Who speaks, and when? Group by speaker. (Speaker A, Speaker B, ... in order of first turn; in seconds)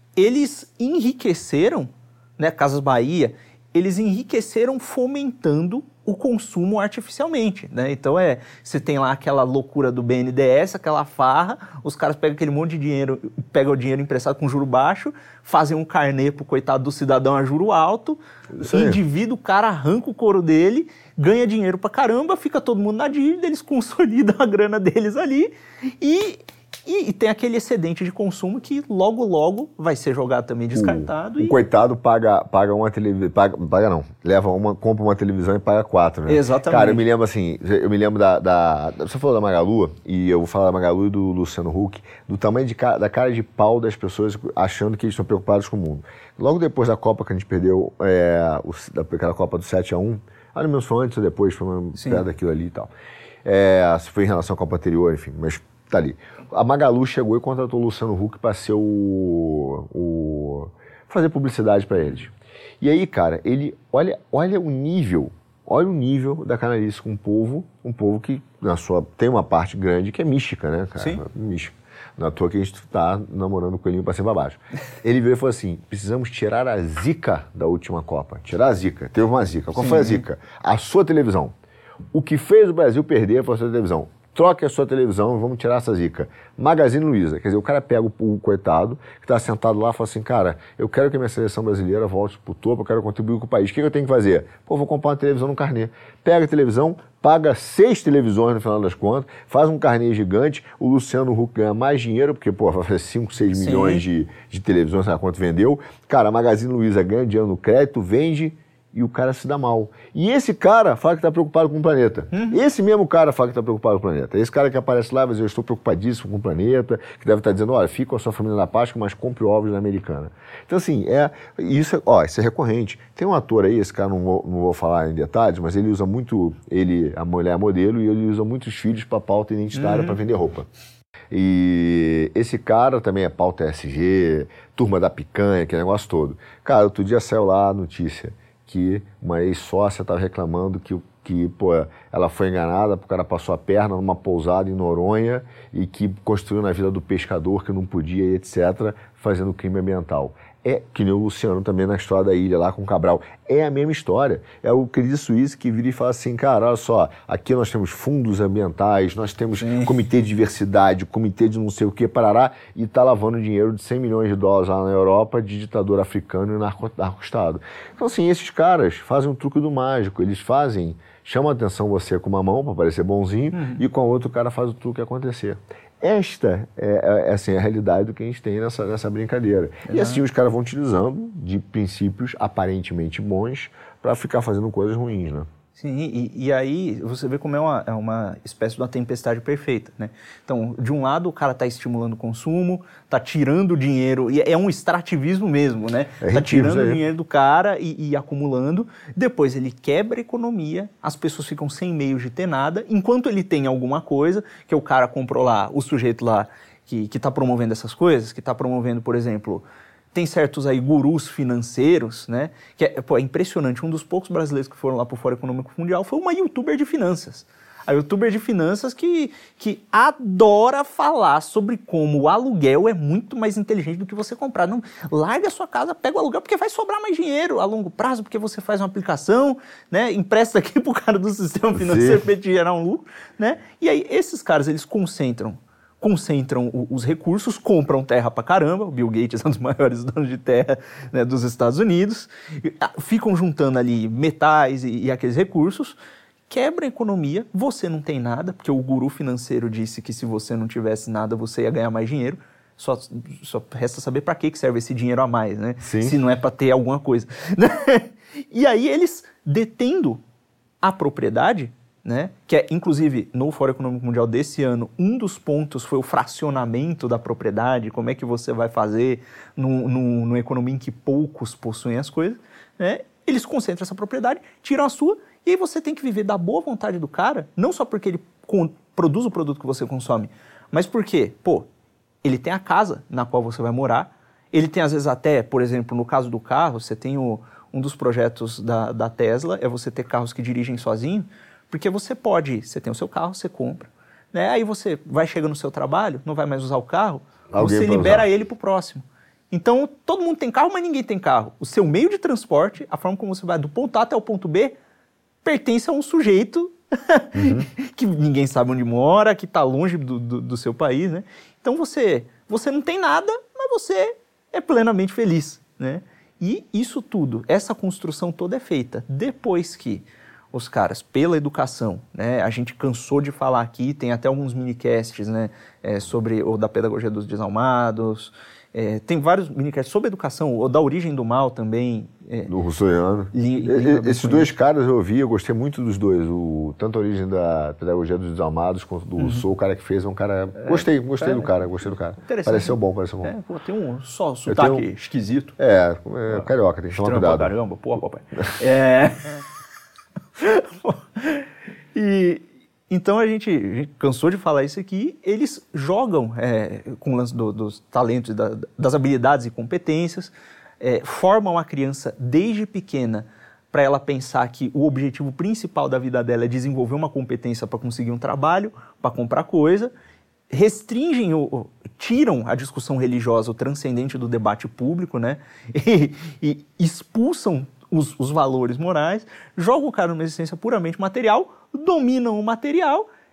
Speaker A: 0.1-31.6, 36.3-37.0, 52.0-52.2, 71.0-71.2, 79.8-80.2, 103.5-104.0, 112.3-112.6, 129.7-130.2, 159.6-159.9, 173.5-173.8, 179.9-180.2, 185.7-246.0, 246.5-260.2, 260.8-281.7, 282.2-304.8, 305.4-332.5, 333.3-334.5, 339.2-339.4, 340.6-341.5, 342.2-345.6, 346.3-349.4, 350.4-369.9, 370.5-383.1
Speaker B: 18.5-19.0, 30.7-52.9, 53.4-81.5, 82.1-130.7, 131.3-185.5, 196.2-197.0, 231.7-232.2, 255.8-256.1, 297.5-298.2, 307.3-307.7, 332.5-343.3, 344.5-344.9, 345.6-347.5